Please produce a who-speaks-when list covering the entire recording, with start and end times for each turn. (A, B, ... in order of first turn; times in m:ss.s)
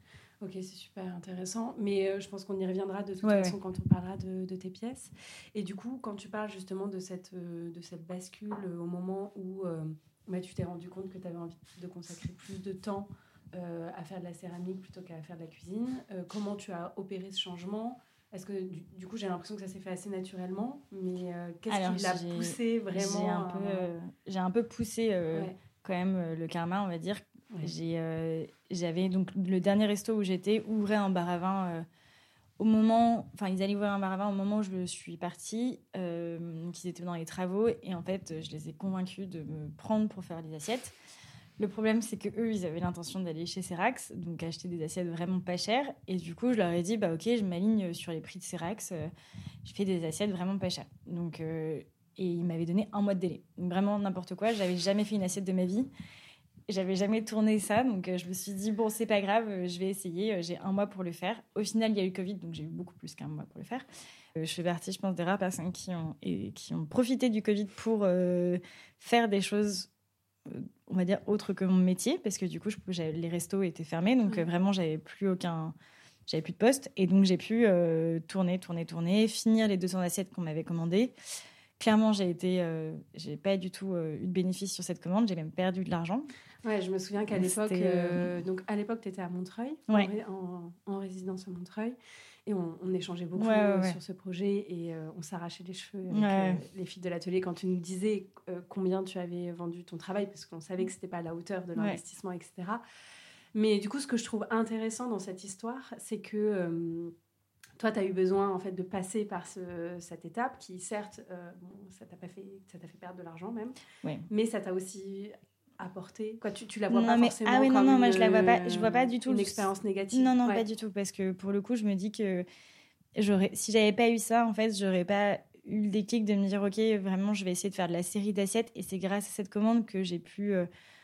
0:00.4-0:23.9 A
0:03.2-0:03.6 B
0:21.7-0:31.8 B
0:32.6-0:40.9 B
0:41.6-0:49.1 B
0:49.6-0:55.9 B
0:56.7-1:03.8 B
1:04.4-1:09.9 B
1:10.4-1:15.7 B
1:16.3-1:21.1 B
1:21.8-1:26.3 B
1:26.6-1:32.0 A
1:27.4-1:28.3 B
1:32.5-1:42.8 A
1:33.4-1:34.0 B
1:36.1-1:36.6 B
1:43.5-1:47.1 A
1:47.8-1:53.8 A
1:54.3-2:00.6 A
1:56.9-2:02.4 B
2:03.2-2:10.7 B